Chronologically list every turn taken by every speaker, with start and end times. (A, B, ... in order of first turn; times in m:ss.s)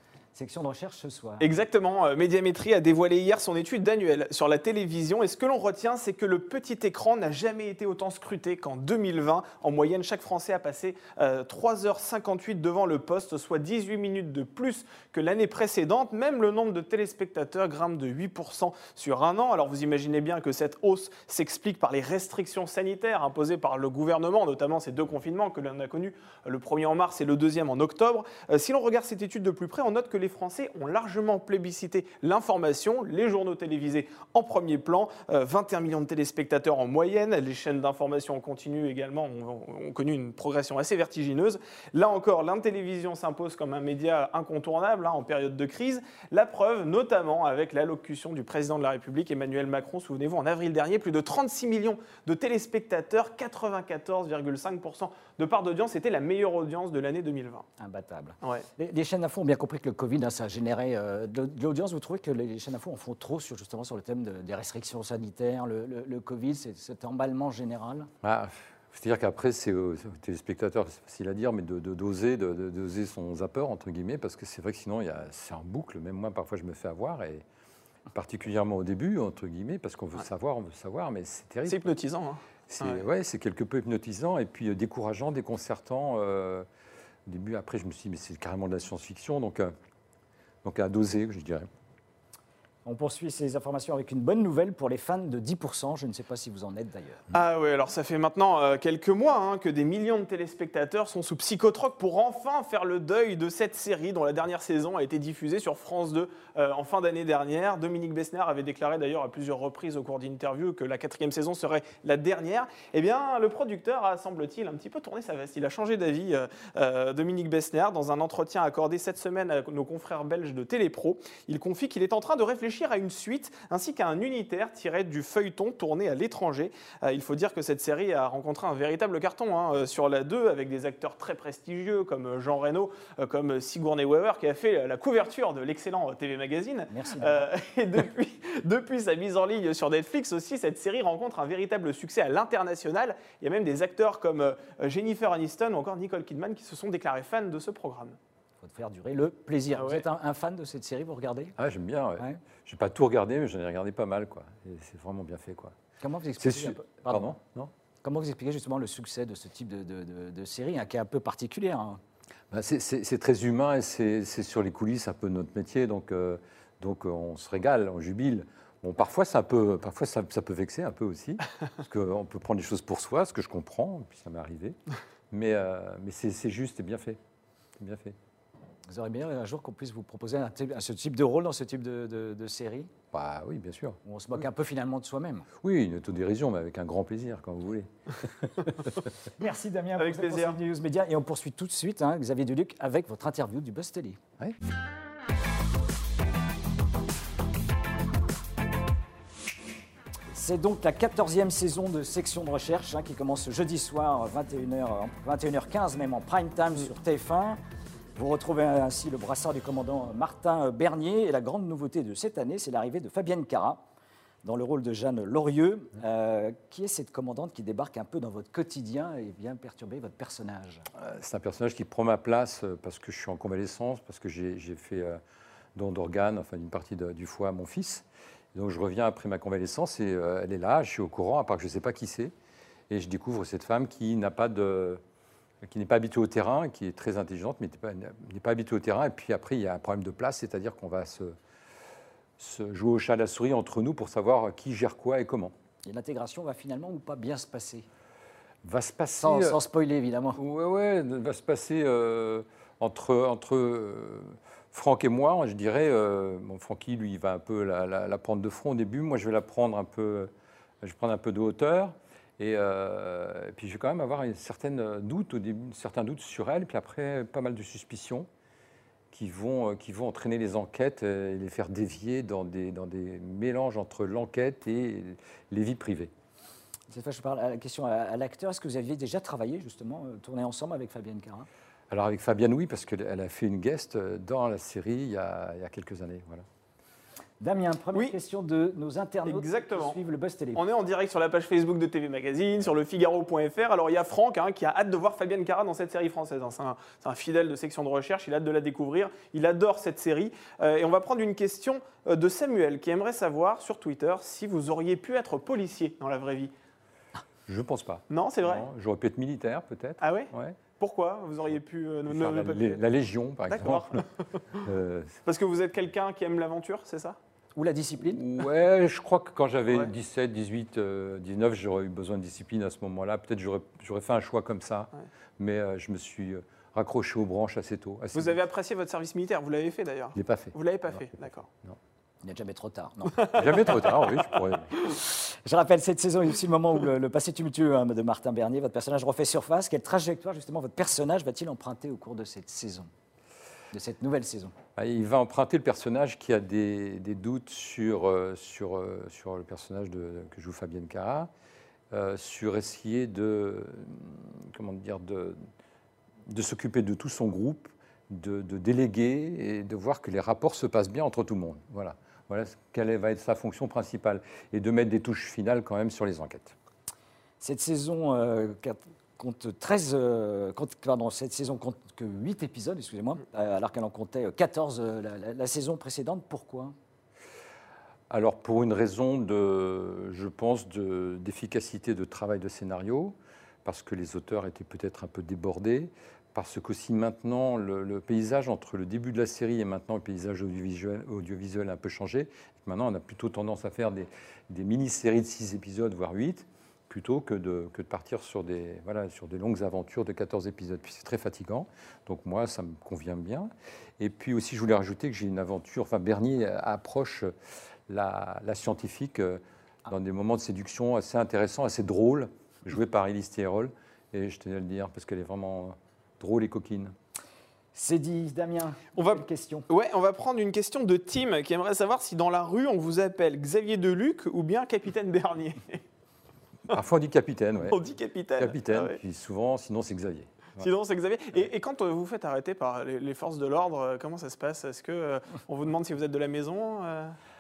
0:00.4-0:01.5 A
0:01.4-0:57.7 B
0:57.8-1:08.1 A
1:08.2-1:17.4 C
1:18.1-1:21.9 C
1:21.7-1:23.0 B
1:22.7-1:26.7 C
1:27.3-1:29.7 C
1:30.6-1:31.7 C
1:32.9-1:37.2 A
1:37.3-2:28.2 B
2:16.9-2:17.4 A
2:28.6-2:31.6 A
2:29.8-2:30.0 B
2:31.6-2:35.8 C
2:36.0-2:37.3 A
2:36.4-2:37.7 C
2:38.0-2:42.0 A
2:42.5-2:54.8 C
2:55.3-2:57.2 C
2:57.8-2:58.2 C
2:58.9-3:02.9 A
3:03.1-3:04.0 C
3:04.0-3:05.5 A
3:05.6-3:09.0 C
3:09.4-3:14.2 A
3:10.0-3:10.6 B
3:20.3-3:27.6 A
3:28.2-3:33.8 A
3:34.4-3:40.9 A
3:41.0-3:45.2 C
3:45.8-3:52.3 C
3:52.9-3:55.0 C
3:55.6-4:01.4 C
4:02.4-4:05.5 C
4:05.8-4:07.9 A
4:08.6-4:09.6 C
4:09.2-4:10.4 A
4:10.4-4:20.3 C
4:20.8-4:28.3 C
4:29.1-4:36.1 C
4:36.9-4:41.5 A
4:41.9-4:46.5 C
4:47.4-4:50.6 A
4:49.2-4:50.0 B
4:50.6-5:06.5 B
5:07.5-5:10.6 C
5:08.1-5:08.7 B
5:10.0-5:12.8 B
5:12.1-5:14.0 C
5:13.5-5:14.6 B
5:14.6-5:15.2 C
5:15.3-5:17.2 B
5:17.6-5:18.2 A
5:18.0-5:28.4 C
5:28.1-5:31.5 B
5:30.2-5:31.0 C
5:32.2-5:33.6 A
5:33.3-5:34.7 C
5:33.7-5:34.2 B
5:35.1-5:42.9 A
5:43.7-5:44.5 A
5:44.8-5:51.3 C
5:51.9-5:55.4 C
5:56.3-6:06.6 C
6:07.4-6:16.8 A
6:18.1-6:47.3 C
6:47.9-6:56.9 C
6:57.8-6:59.7 A
6:59.0-7:05.8 B
7:06.7-7:07.8 C
7:07.7-7:09.0 B
7:08.4-7:10.7 C
7:10.6-7:17.2 B